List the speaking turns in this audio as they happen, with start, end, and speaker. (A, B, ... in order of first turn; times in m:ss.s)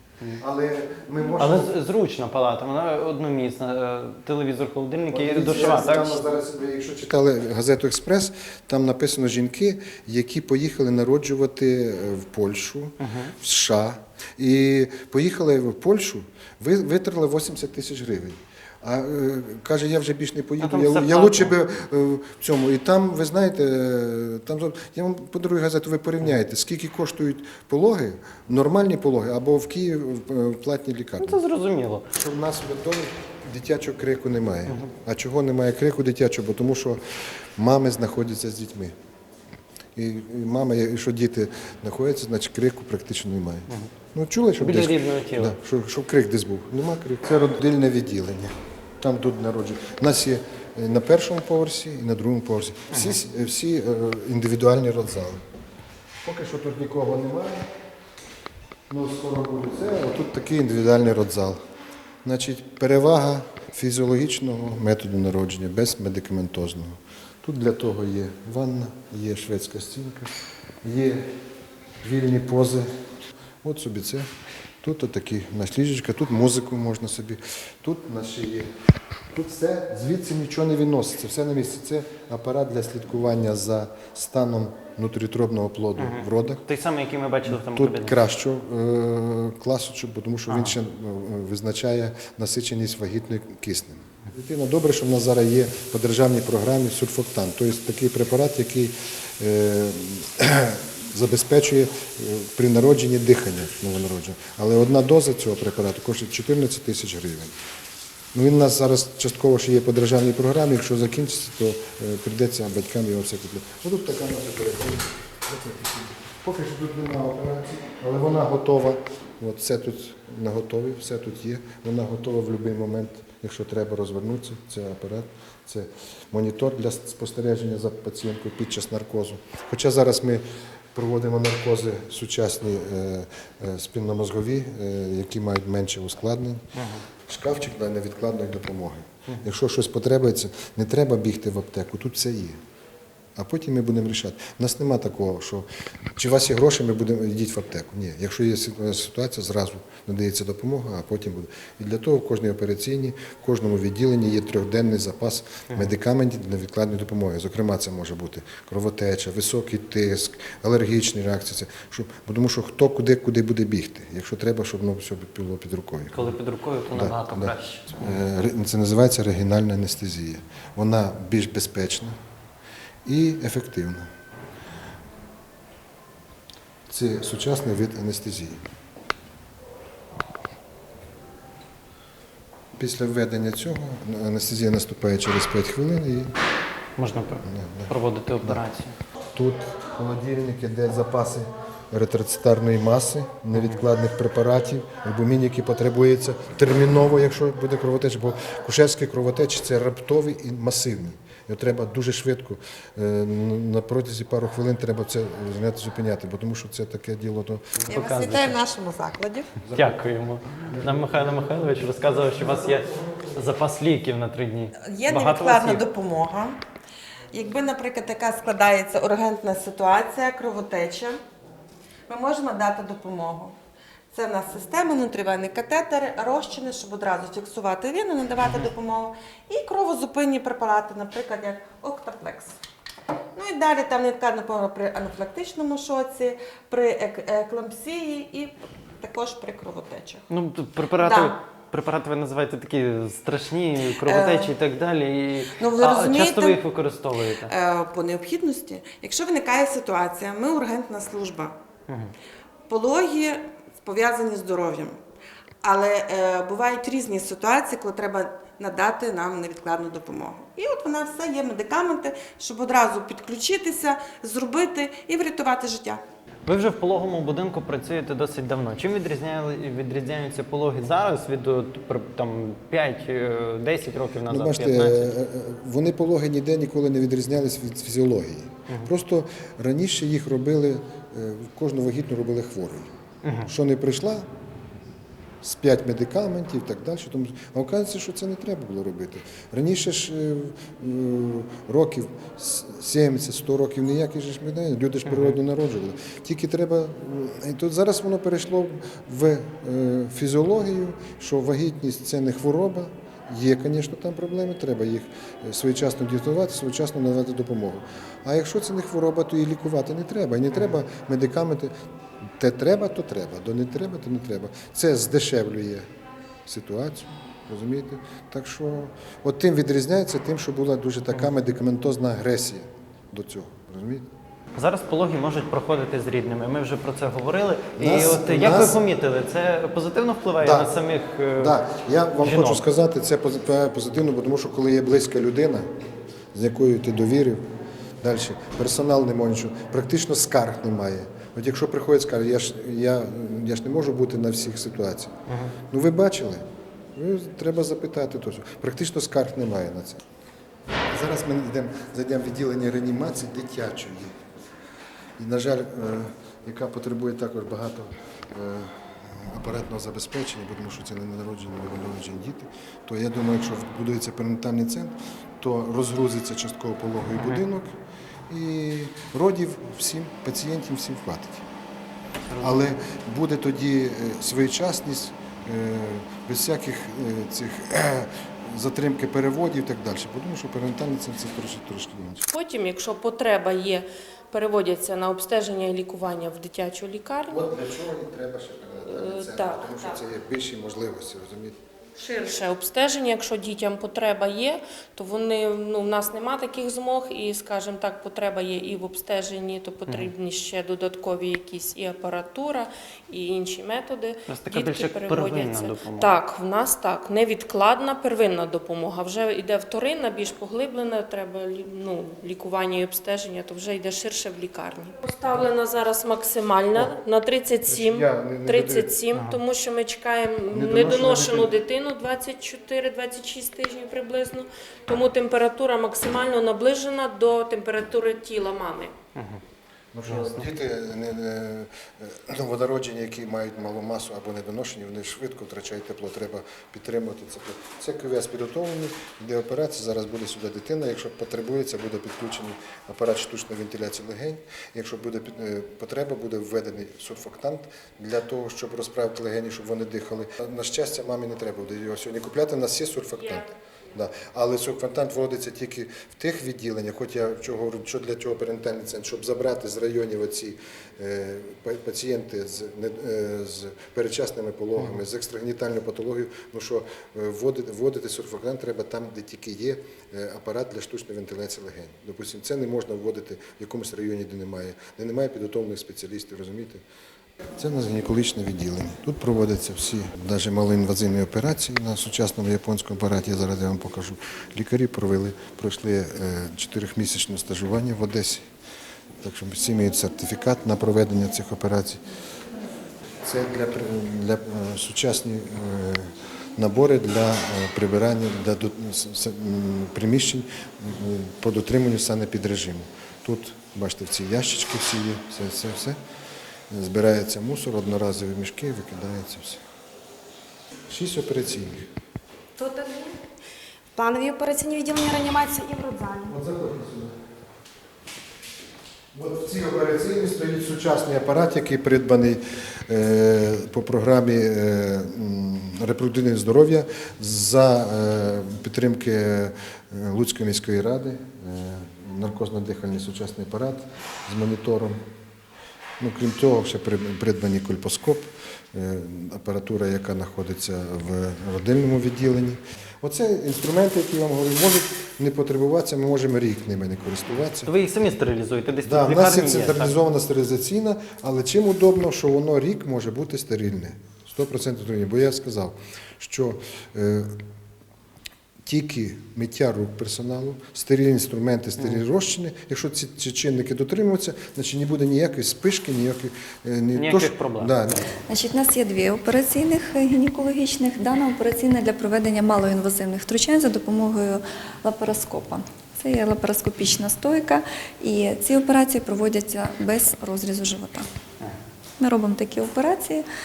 0:00.4-0:01.8 A
0:01.4-0:06.2 B
0:05.1-0:31.4 A
0:13.0-0:13.3 B
0:20.6-0:21.5 B
0:31.2-0:32.1 B
0:32.1-0:37.0 A
0:37.6-0:38.9 A
0:40.0-0:55.4 A
0:44.6-0:45.6 B
0:52.9-0:53.2 B
0:56.2-0:57.7 A
0:58.9-1:01.6 A
1:02.2-1:11.3 A
1:12.0-1:12.9 A
1:13.6-1:14.3 A
1:14.8-1:18.7 A
1:19.3-1:26.6 A
1:26.0-1:28.2 B
1:27.5-1:47.6 A
1:30.5-1:30.8 B
1:48.3-2:16.6 A
2:16.8-2:17.0 B
2:17.3-2:22.6 A
2:23.4-2:46.3 A
2:46.1-2:48.2 B
2:46.9-2:52.2 A
2:53.1-2:54.1 A
2:56.9-2:58.6 A
3:02.8-3:06.3 A
3:07.0-3:09.0 B
3:07.4-3:08.6 A
3:09.3-3:28.6 A
3:13.5-3:13.8 B
3:27.9-3:29.5 C
3:29.6-3:30.0 A
3:29.7-3:35.8 B
3:30.7-3:32.8 A
3:34.8-3:36.6 C
3:37.3-3:41.2 C
3:42.1-3:43.6 C
3:44.1-3:52.6 C
3:53.4-4:00.2 C
4:00.3-4:07.5 B
4:01.0-4:01.4 C
4:04.0-4:04.6 C
4:05.6-4:06.7 C
4:07.4-4:11.6 C
4:12.7-4:15.0 C
4:15.6-4:26.0 C
4:26.5-4:35.1 B
4:34.3-4:42.9 A
4:43.2-4:43.5 B
4:43.5-4:44.3 A
4:45.4-5:11.7 A
4:55.1-4:55.4 B
5:12.4-5:15.9 A
5:16.5-5:24.1 A
5:24.6-5:31.6 B
5:27.8-5:28.8 A
5:30.4-5:30.7 A
5:31.4-5:35.7 A
5:32.2-5:32.6 B
5:36.3-5:37.5 A
5:38.0-5:45.1 A
5:45.3-5:45.5 B
5:45.7-5:46.4 A
5:47.0-5:50.0 A
5:50.9-5:54.2 A
5:55.2-6:07.7 A
6:08.3-6:11.5 A
6:12.3-6:12.7 B
6:12.4-6:22.3 A
6:22.3-6:27.5 D
6:27.3-6:31.6 A
6:28.9-6:29.9 D
6:32.0-7:08.9 D
6:44.3-6:46.2 B
6:57.6-6:58.9 A
6:59.1-6:59.4 B
7:00.5-7:01.5 A
7:09.2-7:09.4 B
7:09.9-7:56.8 A
7:10.1-7:10.5 B
7:57.6-8:08.4 A
8:09.2-8:12.0 A
8:13.2-8:26.0 A
8:26.7-8:29.6 A
8:30.9-8:31.9 A
8:32.6-8:33.1 E
8:34.0-8:36.3 E
8:36.3-8:37.1 A
8:39.2-8:55.0 A
8:56.0-9:07.7 A
9:07.7-9:10.0 B
9:08.8-9:17.4 A
9:18.6-9:28.0 A
9:27.0-9:27.8 B
9:28.3-9:41.1 F
9:42.0-9:43.3 F